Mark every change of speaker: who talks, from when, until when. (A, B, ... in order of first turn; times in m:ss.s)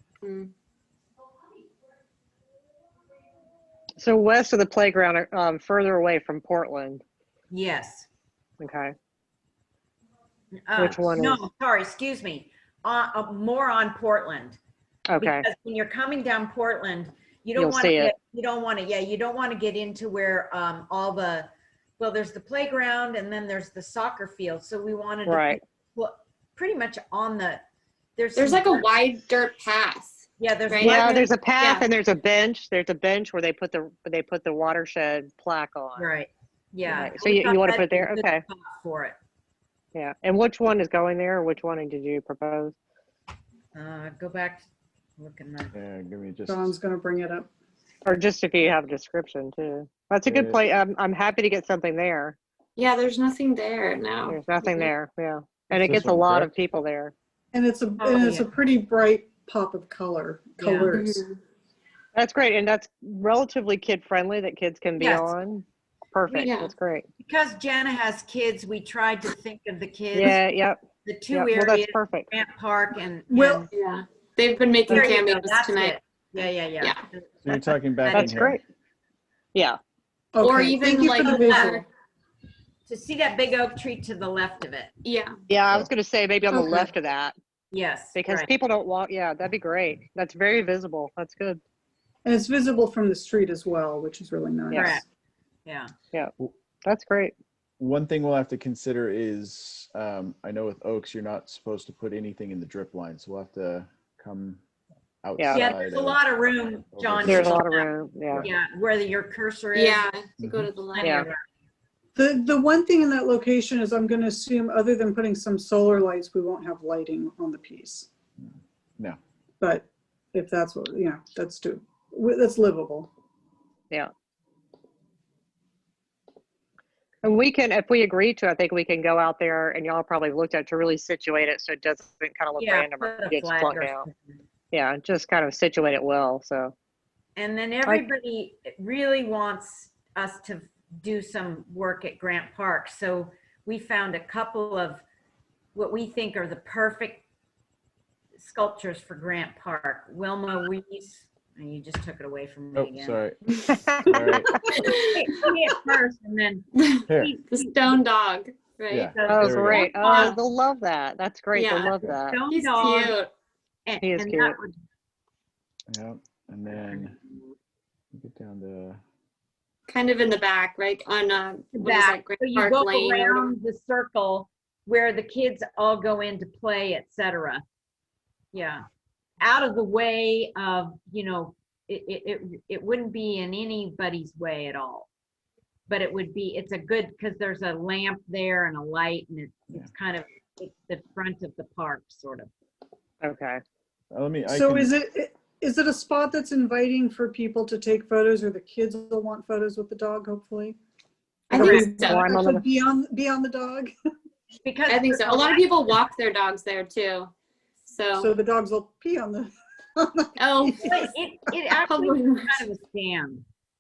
0:00.2-0:00.5 A
0:04.0-0:07.0 B
0:07.5-0:08.1 C
0:08.6-0:08.9 B
0:10.5-0:14.6 C
0:10.8-0:11.4 B
0:15.1-0:15.4 B
0:15.2-0:27.6 C
0:17.6-0:18.1 B
0:25.2-0:25.6 B
0:28.2-0:28.9 C
0:28.3-0:31.9 A
0:30.4-0:31.2 C
0:30.8-0:36.1 B
0:36.0-0:39.2 C
0:36.8-0:38.4 B
0:39.9-0:42.7 B
0:43.7-0:44.7 C
0:45.2-0:45.7 C
0:45.7-0:46.7 D
0:46.5-0:47.5 E
0:48.0-0:52.4 B
0:50.2-0:50.6 D
0:52.8-0:54.9 A
0:54.3-0:57.1 B
0:55.7-0:56.5 D
0:57.5-1:01.2 E
0:58.0-0:58.5 C
1:00.6-1:00.9 C
1:00.9-1:01.3 A
1:02.1-1:07.0 B
1:05.0-1:05.3 C
1:06.3-1:06.7 A
1:07.2-1:10.4 C
1:10.1-1:12.3 B
1:11.0-1:13.7 C
1:13.3-1:13.7 E
1:13.7-1:16.0 A
1:14.9-1:18.4 C
1:17.4-1:18.6 D
1:18.1-1:18.6 B
1:19.5-1:19.8 B
1:20.3-1:21.8 E
1:20.4-1:21.8 A
1:20.8-1:21.8 C
1:22.9-1:24.9 C
1:25.0-1:25.3 A
1:25.5-1:27.3 B
1:27.7-1:28.5 C
1:28.1-1:31.6 B
1:32.2-1:35.0 E
1:34.7-1:35.0 B
1:34.7-1:35.0 C
1:35.6-1:35.9 C
1:36.8-1:37.3 B
1:37.8-1:44.6 D
1:45.2-1:46.2 D
1:45.5-1:47.9 C
1:46.9-1:47.6 D
1:47.2-1:48.5 B
1:48.4-1:50.1 C
1:49.7-1:51.2 A
1:50.4-1:50.7 D
1:50.9-1:51.4 C
1:51.0-1:51.3 B
1:52.2-1:58.1 E
1:59.6-2:03.1 E
2:07.2-2:14.0 B
2:12.6-2:14.4 C
2:14.7-2:16.7 B
2:17.4-2:25.0 C
2:25.7-2:27.2 C
2:28.4-2:33.2 C
2:32.7-2:34.5 D
2:33.7-2:34.5 B
2:34.7-2:35.2 A
2:35.1-2:38.0 C
2:36.8-2:40.4 A
2:37.1-2:37.3 D
2:38.9-2:39.9 D
2:39.1-2:40.4 C
2:39.3-2:42.4 B
2:41.5-2:43.3 A
2:42.3-2:43.2 C
2:43.8-2:44.7 C
2:44.0-2:44.6 B
2:45.9-2:47.1 D
2:48.1-2:49.0 D
2:49.9-2:53.5 A
2:51.7-2:57.6 C
2:58.5-2:58.8 C
2:59.4-3:05.1 C
3:05.9-3:12.5 C
3:13.2-3:13.6 B
3:14.1-3:14.9 D
3:14.5-3:20.8 E
3:21.5-3:22.3 A
3:21.5-3:23.9 E
3:21.5-3:21.9 C
3:22.1-3:22.6 B
3:24.6-3:25.9 C
3:24.9-3:27.3 A
3:27.9-3:28.3 A
3:28.2-3:31.1 E
3:30.4-3:30.9 A
3:30.8-3:33.4 C
3:31.8-3:32.6 A